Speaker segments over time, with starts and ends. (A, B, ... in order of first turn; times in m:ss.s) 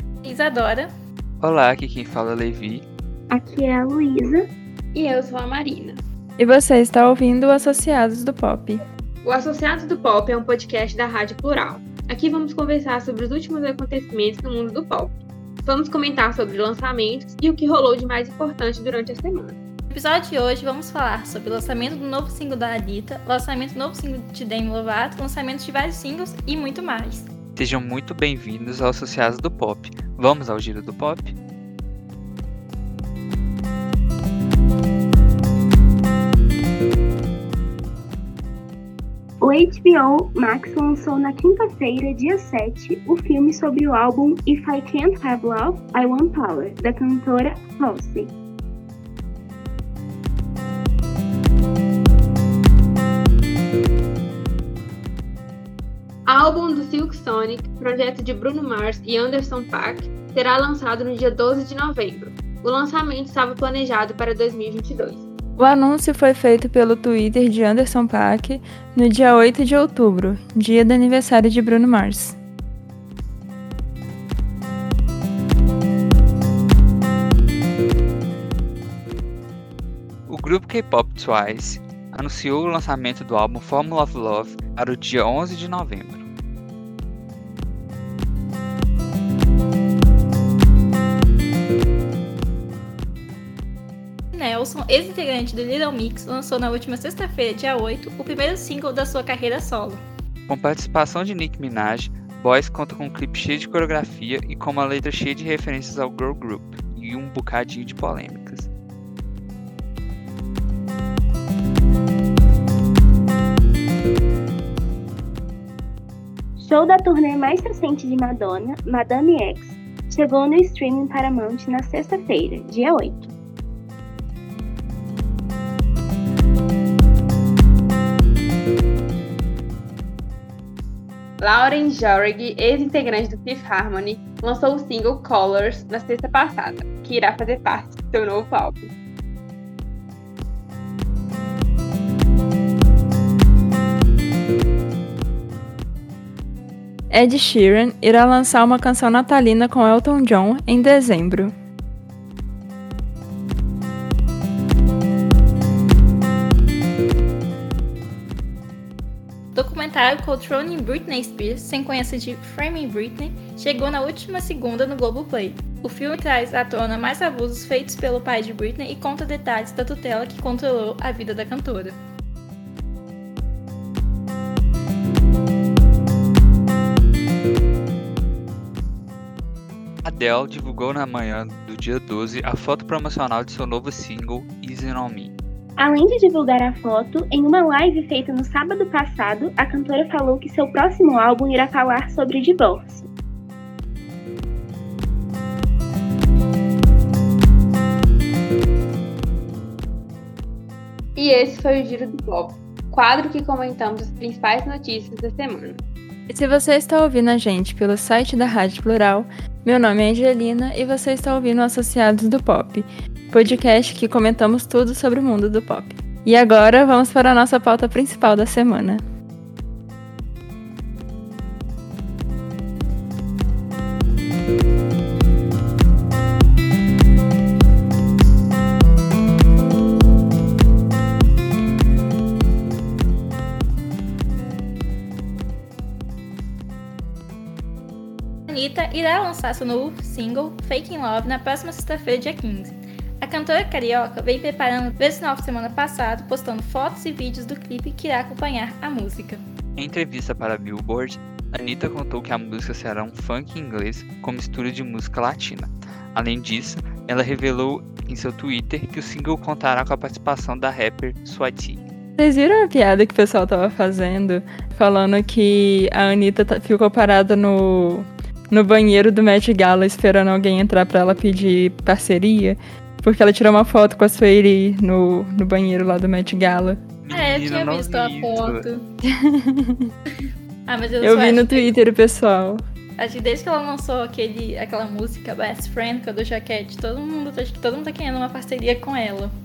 0:00.2-0:00.9 A
0:01.4-0:02.9 B
0:03.3-0:04.5 C
0:04.9-0:06.0 D
0:06.4-0:08.8 E
0:09.2-0:19.6 D
0:19.9-0:27.3 A
0:27.6-0:31.4 B
0:39.4-0:48.3 C
0:56.3-1:05.2 D
1:05.6-1:12.4 E
1:20.3-1:26.2 B
1:34.3-1:40.0 A
1:40.5-1:48.7 B
1:56.6-2:03.3 C
2:11.4-2:18.9 D
2:27.1-2:31.5 E
2:39.5-2:52.0 A
3:00.0-3:05.3 B
3:05.8-3:13.1 C
3:21.2-3:25.8 D
3:26.3-3:39.0 E
3:58.5-4:09.4 A
4:09.8-4:21.8 B
4:22.2-4:36.8 E
4:37.0-4:38.6 B
4:37.1-4:38.8 A
4:39.2-4:39.9 E
4:40.7-4:41.7 A
4:41.0-4:42.6 E
4:43.0-4:49.3 A